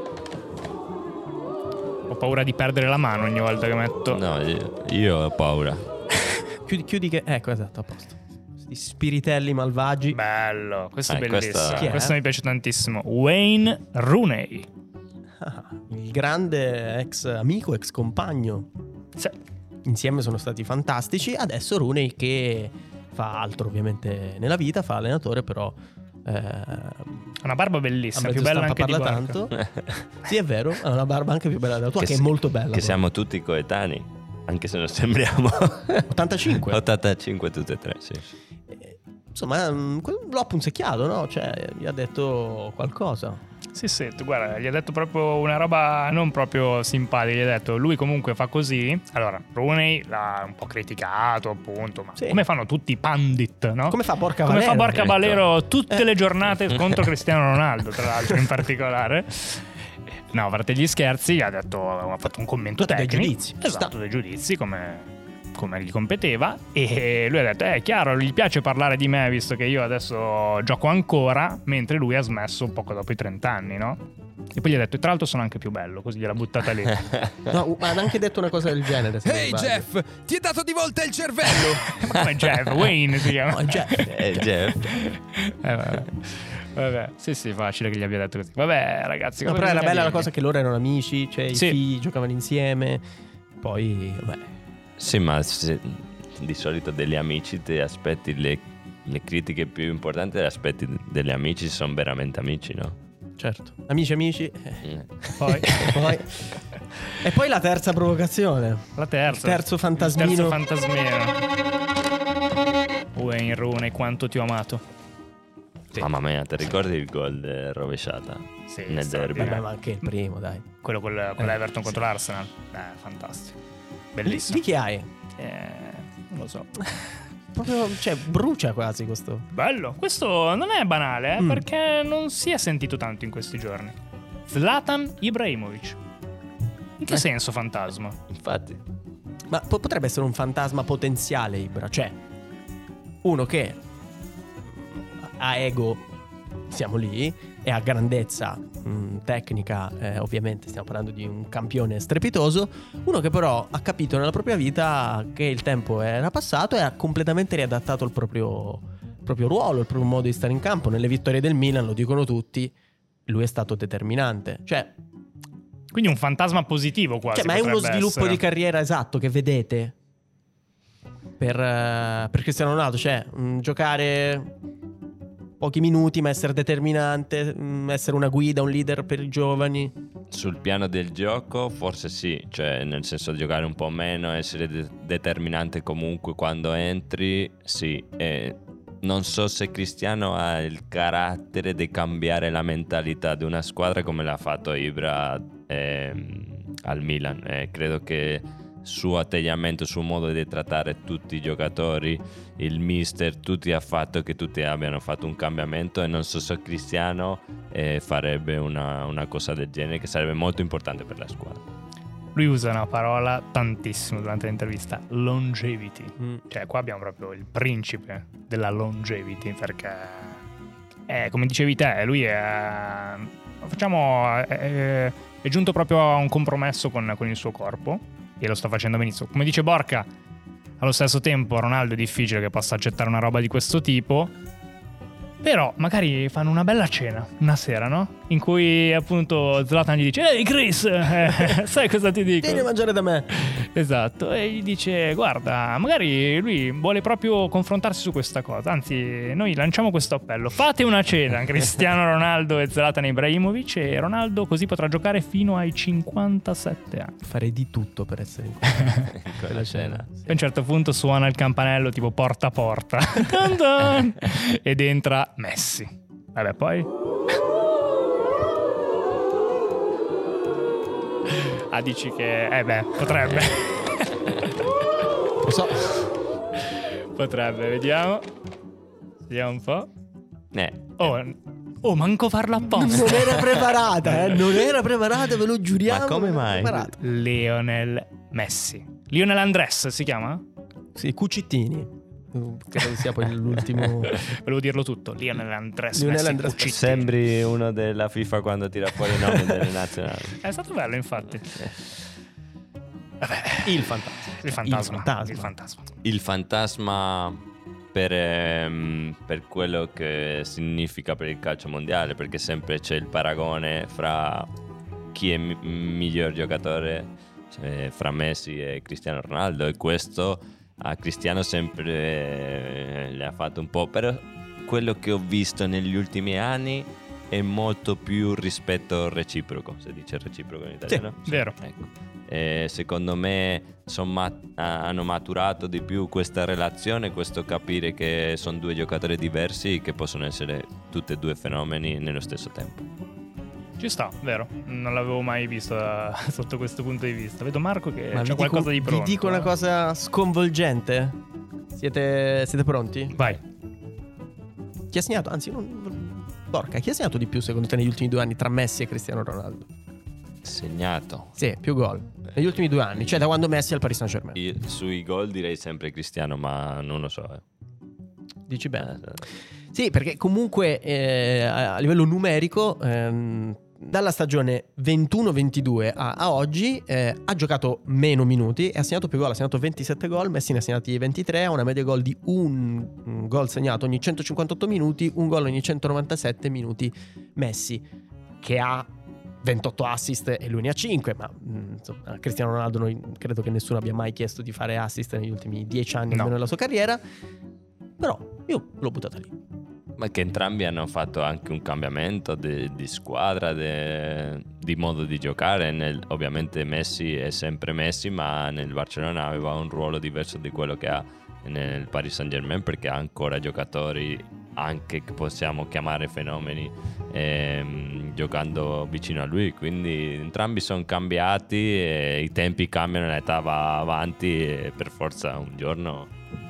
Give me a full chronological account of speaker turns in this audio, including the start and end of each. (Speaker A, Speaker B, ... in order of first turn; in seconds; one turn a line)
Speaker A: 2.1-4.2
Speaker B: 4.1-5.8
Speaker C: 6.6-10.2
Speaker A: 10.1-14.7
Speaker B: 11.1-12.0
Speaker C: 11.8-12.2
Speaker C: 15.4-18.7
Speaker C: 19.8-27.2
Speaker A: 27.4-29.4
Speaker C: 28.1-33.0
Speaker B: 32.0-36.1
Speaker C: 36.1-36.8
Speaker B: 36.6-38.3
Speaker C: 38.7-43.4
Speaker A: 43.7-59.7
Speaker C: 52.2-52.4
Speaker C: 53.9-55.1
Speaker B: 55.0-55.4
Speaker A: 60.3-74.0
Speaker C: 62.8-63.9
Speaker A: 74.5-77.2
Speaker C: 77.5-79.8
Speaker D: 79.2-81.9
Speaker A: 81.6-84.1
Speaker C: 83.5-84.1
Speaker B: 84.0-84.9
Speaker A: 84.8-90.3
Speaker C: 89.4-93.0
Speaker A: 91.5-91.8
Speaker C: 93.6-94.5
Speaker B: 95.0-103.0
Speaker C: 103.4-110.6
Speaker B: 104.8-105.1
Speaker A: 105.4-106.2
Speaker A: 109.0-111.4
Speaker A: 113.1-114.8
Speaker B: 115.9-119.6
Speaker A: 118.7-119.7
Speaker C: 119.4-120.7
Speaker A: 120.8-123.6
Speaker A: 124.1-124.6
Speaker C: 124.2-125.1
Speaker A: 125.4-127.2
Speaker C: 127.5-129.5
Speaker A: 129.5-133.9
Speaker C: 131.4-131.6
Speaker A: 134.5-136.0
Speaker A: 137.0-138.2
Speaker B: 138.3-138.8
Speaker C: 139.5-142.2
Speaker C: 143.2-143.8
Speaker C: 144.7-146.0
Speaker C: 146.7-162.7
Speaker C: 163.3-164.9
Speaker A: 165.9-168.4
Speaker C: 167.3-169.9
Speaker C: 171.4-174.5
Speaker C: 175.6-179.9
Speaker B: 180.3-211.6
Speaker A: 212.3-220.4
Speaker A: 221.1-230.1
Speaker A: 230.8-234.3
Speaker A: 235.4-242.7
Speaker C: 242.4-243.4
Speaker A: 243.3-257.1
Speaker C: 257.2-260.3
Speaker B: 259.1-260.1
Speaker A: 260.3-266.9
Speaker A: 271.3-274.5
Speaker C: 275.4-276.0
Speaker A: 276.6-278.2
Speaker A: 279.3-279.9
Speaker B: 280.5-281.0
Speaker A: 281.0-283.7
Speaker C: 282.8-287.0
Speaker B: 285.9-286.9
Speaker A: 287.0-290.4
Speaker C: 290.9-294.3
Speaker A: 294.1-297.1
Speaker C: 295.9-296.9
Speaker B: 296.7-300.4
Speaker A: 300.4-301.8
Speaker A: 303.2-303.8
Speaker C: 303.6-305.5
Speaker A: 304.4-305.9
Speaker B: 306.0-307.4
Speaker B: 307.9-314.5
Speaker B: 315.1-342.8
Speaker A: 331.2-331.6
Speaker A: 343.8-349.5
Speaker C: 348.1-351.2
Speaker C: 351.7-353.1
Speaker C: 354.9-359.7
Speaker B: 360.4-361.4
Speaker C: 361.4-364.4
Speaker B: 364.3-367.4
Speaker C: 368.5-387.8
Speaker B: 368.9-369.2
Speaker C: 388.4-388.9
Speaker C: 389.4-397.0
Speaker C: 398.0-399.3
Speaker B: 400.0-426.1